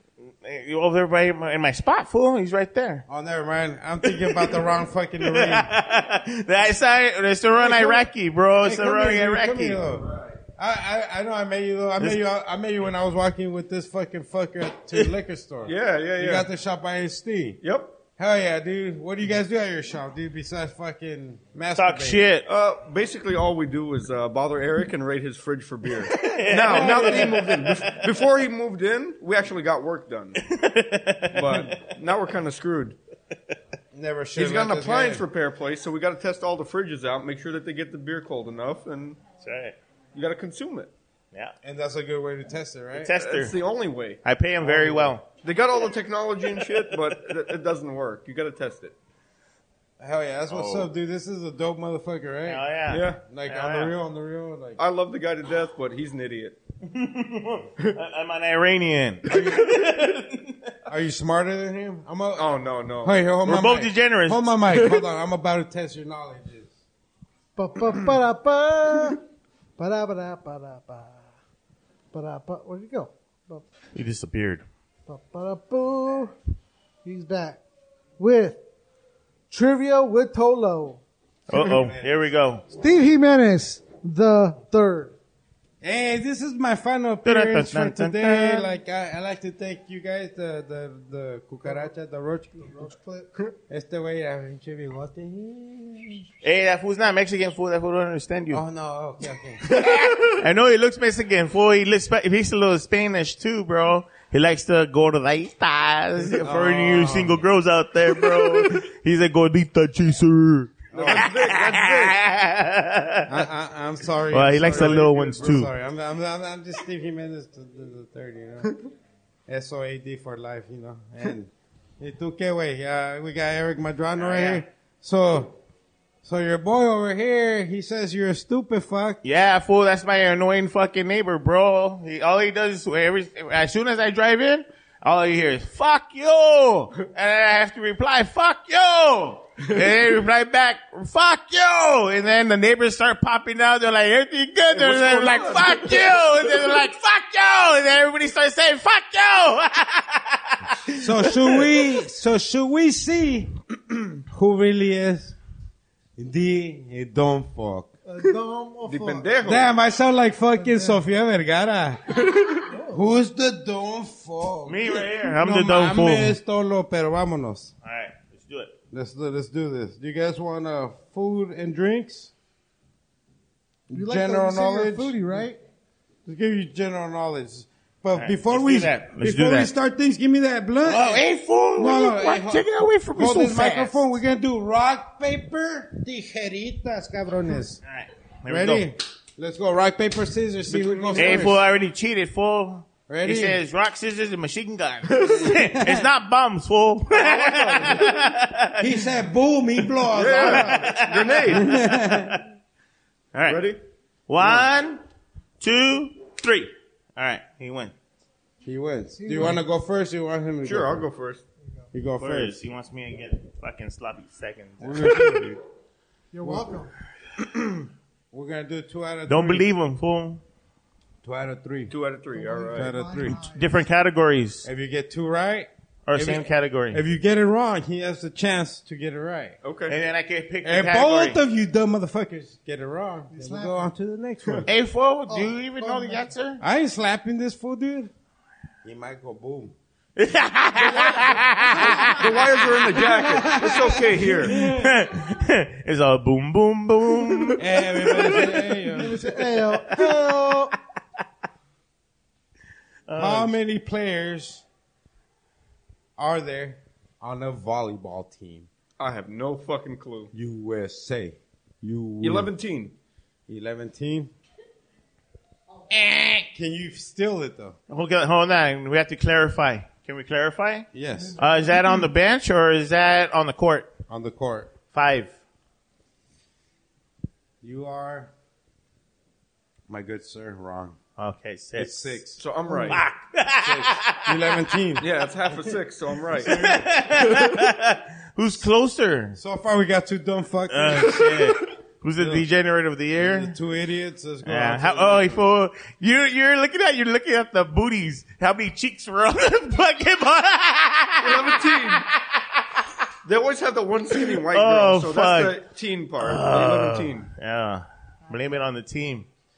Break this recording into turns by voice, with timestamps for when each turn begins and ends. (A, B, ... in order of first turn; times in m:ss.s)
0:00.2-0:03.0 A
0:03.1-0:05.7 B
0:04.0-0:09.9 A
0:07.5-0:08.1 B
0:08.6-0:17.6 B
0:15.6-0:16.4 C
0:17.6-0:18.0 C
0:18.2-0:22.3 B
0:21.7-0:22.4 A
0:22.4-0:30.4 C
0:26.0-0:28.2 A
0:26.6-0:27.6 B
0:30.4-0:31.9 A
0:31.3-0:33.0 C
0:33.9-0:35.2 B
0:34.4-0:39.3 C
0:39.3-0:39.8 A
0:40.1-0:40.9 C
0:41.6-0:43.2 B
0:42.9-0:43.5 A
0:43.1-0:44.2 C
0:44.2-0:45.3 A
0:44.6-0:45.1 B
0:44.7-0:48.9 C
0:46.7-0:47.2 A
0:50.0-0:54.8 B
0:50.5-0:50.9 A
0:52.4-0:53.9 A
0:52.9-0:53.2 C
0:54.8-0:56.6 C
0:56.8-1:00.7 A
0:59.3-0:59.6 B
1:00.9-1:06.7 B
1:02.3-1:03.2 C
1:03.4-1:04.5 A
1:07.6-1:09.2 D
1:09.8-1:11.2 D
1:12.1-1:13.6 D
1:13.9-1:14.6 A
1:15.1-1:16.3 D
1:17.0-1:17.6 D
1:18.2-1:18.6 D
1:19.5-1:21.0 D
1:21.5-1:22.6 A
1:21.5-1:22.2 B
1:22.7-1:25.1 D
1:25.8-1:32.8 B
1:27.2-1:28.7 A
1:32.6-1:33.4 D
1:33.7-1:36.3 B
1:36.4-1:38.6 A
1:38.5-1:39.7 B
1:39.7-1:53.5 A
1:46.2-1:47.4 B
1:50.9-1:51.3 B
1:50.9-1:52.1 C
1:53.3-1:58.7 B
1:54.3-1:55.7 A
1:59.5-2:05.5 B
2:04.2-2:04.6 A
2:06.2-2:09.2 B
2:09.2-2:31.9 A
2:24.7-2:26.1 C
2:31.0-2:35.4 B
2:36.2-2:37.9 B
2:38.0-2:39.3 D
2:38.8-2:39.7 C
2:39.4-2:42.2 B
2:40.5-2:41.0 D
2:42.7-2:43.1 D
2:42.9-2:47.7 B
2:44.6-2:46.4 A
2:47.8-2:48.7 A
2:48.9-2:52.3 B
2:53.9-2:55.3 B
2:53.9-2:55.6 D
2:56.2-3:01.2 B
2:58.1-2:59.7 A
3:00.8-3:04.0 A
3:01.8-3:07.8 B
3:07.8-3:08.9 A
3:08.5-3:11.6 B
3:10.7-3:11.5 C
3:11.1-3:19.1 A
3:13.1-3:13.6 B
3:15.2-3:16.1 B
3:17.1-3:18.1 C
3:18.8-3:22.4 B
3:19.8-3:22.4 A
3:20.1-3:21.7 C
3:23.3-3:23.7 A
3:23.4-3:23.8 C
3:24.3-3:25.0 A
3:25.6-3:27.9 A
3:28.6-3:31.1 B
3:29.1-3:29.6 D
3:30.6-3:31.4 C
3:31.9-3:32.6 B
3:32.2-3:35.6 A
3:34.8-3:35.6 B
3:36.3-3:36.9 D
3:36.4-3:36.7 B
3:37.4-3:37.6 B
3:38.3-3:39.7 B
3:39.3-3:40.4 A
3:41.2-3:41.9 B
3:41.9-3:43.0 C
3:42.3-3:43.8 D
3:42.7-3:43.4 B
3:43.4-3:44.7 A
3:44.6-3:49.6 B
3:46.1-3:47.0 A
3:49.6-3:50.0 C
3:49.9-3:51.4 A
3:50.6-3:54.7 B
3:53.3-3:53.9 D
3:54.6-3:56.6 A
3:55.3-3:56.3 D
3:56.6-3:58.1 B
3:58.8-3:59.7 B
4:00.2-4:02.3 A
4:00.8-4:01.2 D
4:01.2-4:05.0 B
4:02.1-4:04.5 C
4:04.6-4:08.8 A
4:07.6-4:09.2 B
4:08.9-4:10.7 D
4:09.7-4:10.2 A
4:13.1-4:13.6 A
4:13.2-4:14.6 B
4:16.2-4:18.7 B
4:19.0-4:20.3 C
4:20.3-4:22.5 B
4:22.2-4:22.9 C
4:23.5-4:24.3 B
4:25.9-4:27.8 B
4:27.9-4:33.9 A
4:30.9-4:31.4 B
4:31.2-4:32.0 D
4:34.1-4:34.7 B
4:34.9-4:35.4 A
4:37.6-4:38.3 B
4:39.9-4:41.0 B
4:41.2-4:42.2 A
4:41.8-4:45.8 B
4:42.4-4:43.0 C
4:42.8-4:44.6 A
4:45.0-4:47.6 C
4:46.3-4:46.9 B
4:46.4-4:49.4 A
4:49.4-4:51.6 B
4:50.7-4:53.6 A
4:52.2-4:52.4 B
4:53.2-4:55.5 B
4:54.4-5:02.6 A
5:01.2-5:02.0 C
5:03.2-5:07.3 C
5:04.1-5:05.6 A
5:06.2-5:09.3 A